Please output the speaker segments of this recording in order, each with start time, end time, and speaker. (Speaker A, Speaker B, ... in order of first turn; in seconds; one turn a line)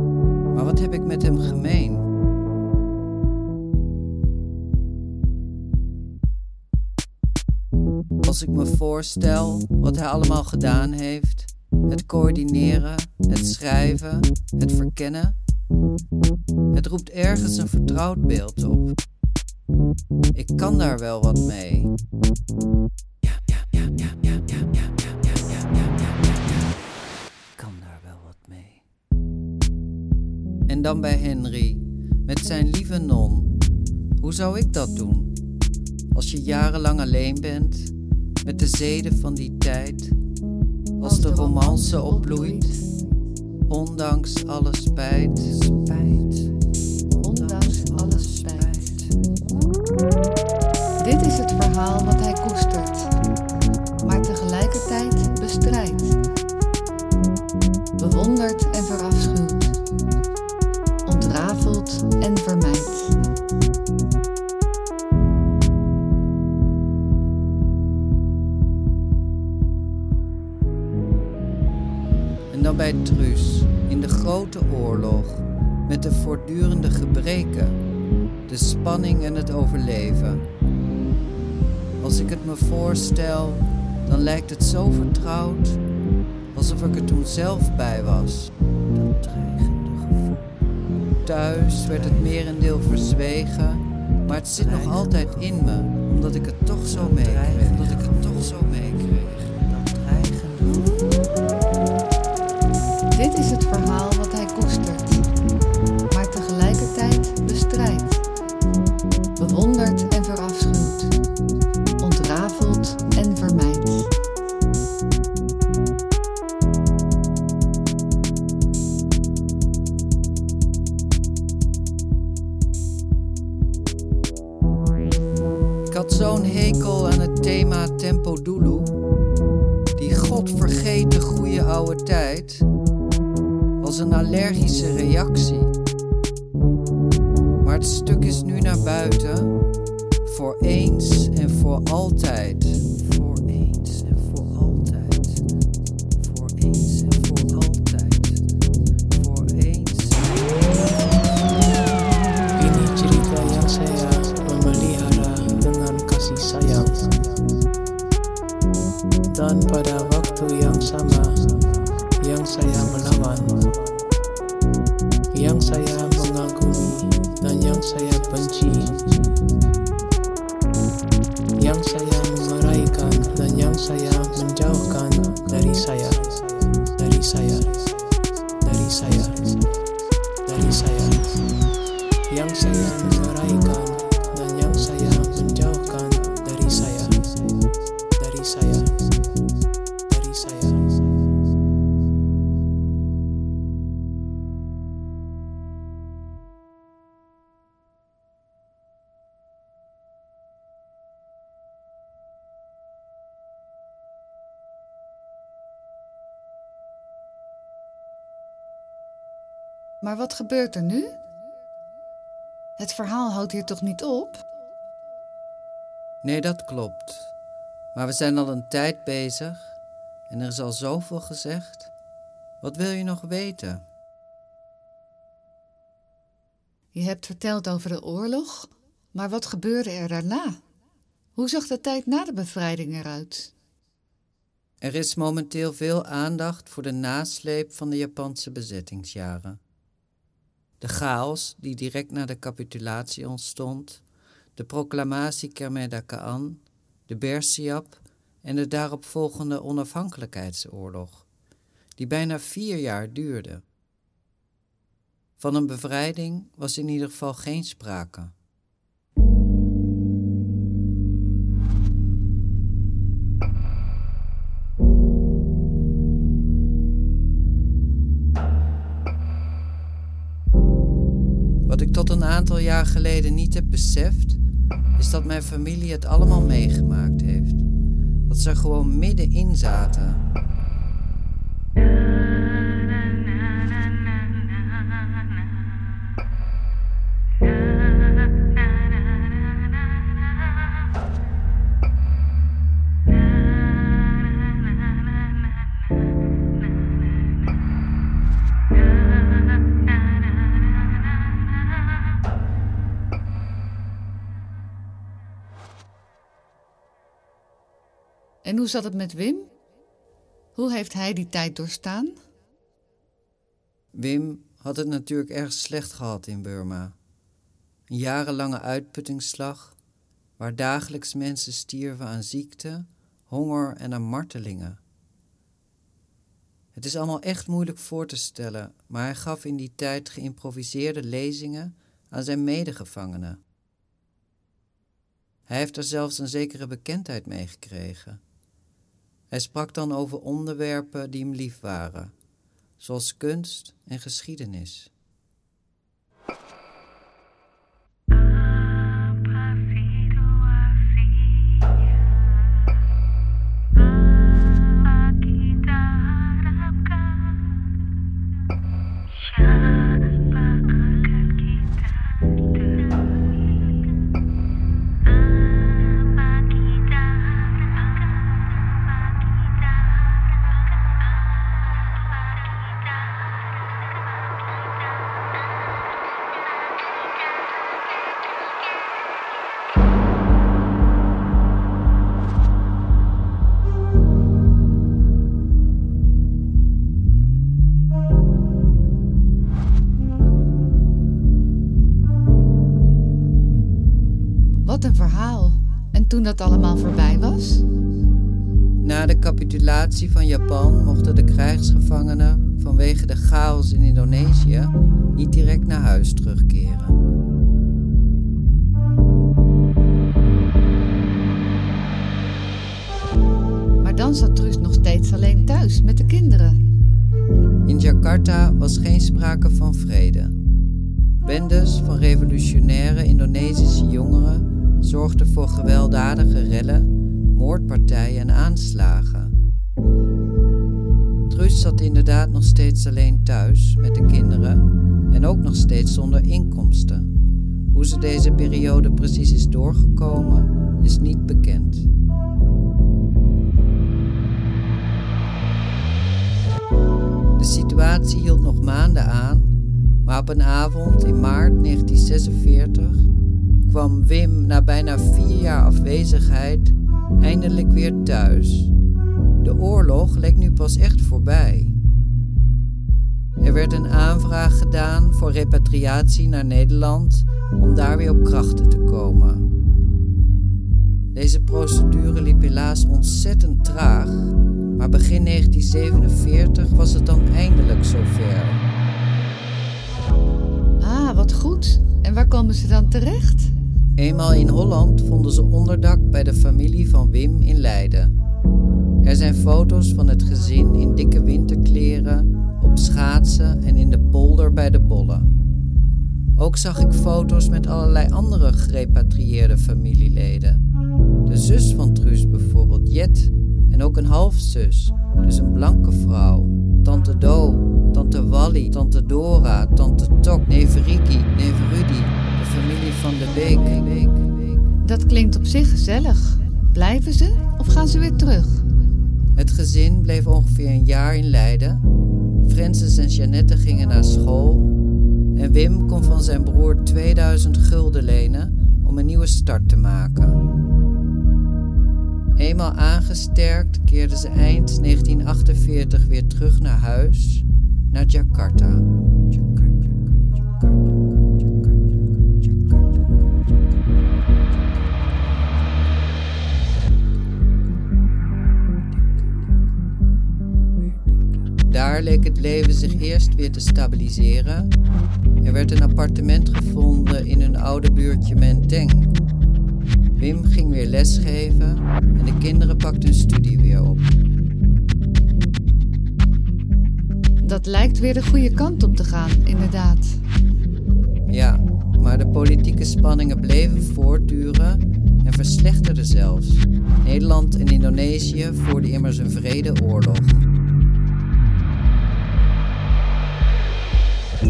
Speaker A: 0.5-2.1
Speaker A: 8.2-15.4
Speaker A: 16.7-18.9
Speaker A: 20.4-21.9
Speaker A: 23.5-26.3
Speaker A: 27.6-28.8
Speaker A: 30.7-33.5
Speaker A: 34.2-35.3
Speaker A: 36.1-37.9
Speaker A: 38.4-40.2
Speaker A: 41.0-42.8
Speaker B: 41.0-42.8
Speaker A: 43.7-46.5
Speaker A: 47.1-49.1
Speaker B: 47.2-48.9
Speaker B: 51.0-53.1
Speaker B: 54.0-56.2
Speaker B: 58.0-59.8
Speaker B: 61.0-63.2
Speaker A: 72.5-77.8
Speaker A: 78.5-80.4
Speaker A: 82.0-85.8
Speaker A: 86.5-90.4
Speaker A: 91.2-100.9
Speaker B: 103.1-105.3
Speaker B: 106.1-108.2
Speaker B: 109.4-111.1
Speaker B: 112.0-114.1
Speaker A: 125.9-128.9
Speaker A: 130.0-132.7
Speaker A: 133.8-135.7
Speaker A: 137.6-139.6
Speaker A: 140.2-145.4
Speaker A: 146.2-148.4
Speaker A: 149.1-150.9
Speaker C: 152.6-157.4
Speaker C: 159.3-164.0
Speaker C: 165.3-169.3
Speaker C: 171.6-179.8
Speaker C: 180.4-181.6
Speaker C: 182.3-189.4
Speaker C: 190.1-191.2
Speaker B: 210.0-211.2
Speaker B: 212.8-214.4
Speaker A: 216.2-217.3
Speaker A: 217.9-219.8
Speaker A: 220.3-221.9
Speaker A: 222.6-223.8
Speaker B: 226.9-230.6
Speaker B: 231.4-233.5
Speaker A: 234.8-239.6
Speaker A: 240.8-244.0
Speaker A: 244.6-251.3
Speaker A: 252.0-253.6
Speaker A: 255.4-258.3
Speaker A: 271.7-274.4
Speaker A: 275.0-277.6
Speaker A: 278.3-280.2
Speaker B: 308.4-309.5
Speaker B: 310.6-312.2
Speaker A: 313.9-316.9
Speaker A: 317.9-319.8
Speaker A: 320.4-324.8
Speaker A: 326.7-333.4
Speaker A: 335.5-338.2
Speaker A: 339.3-342.1
Speaker A: 342.8-344.9
Speaker B: 394.6-397.6
Speaker A: 398.8-407.0
Speaker B: 413.8-416.6
Speaker A: 417.7-420.4
Speaker A: 421.2-429.3
Speaker A: 431.3-437.1
Speaker A: 437.7-441.9
Speaker A: 447.4-453.1
Speaker A: 453.6-458.7
Speaker A: 459.4-461.8
Speaker A: 463.4-469.4
Speaker A: 471.1-478.6
Speaker B: 480.8-483.5
Speaker A: 484.0-488.1
Speaker A: 489.0-495.3
Speaker A: 496.4-500.6
Speaker A: 501.3-514.4
Speaker B: 514.8-518.6
Speaker A: 519.4-521.8
Speaker A: 522.4-524.7
Speaker A: 525.3-530.4
Speaker A: 532.4-538.9
Speaker A: 551.7-554.7
Speaker A: 555.4-559.1
Speaker A: 560.2-564.1
Speaker B: 567.4-570.2
Speaker A: 571.3-580.5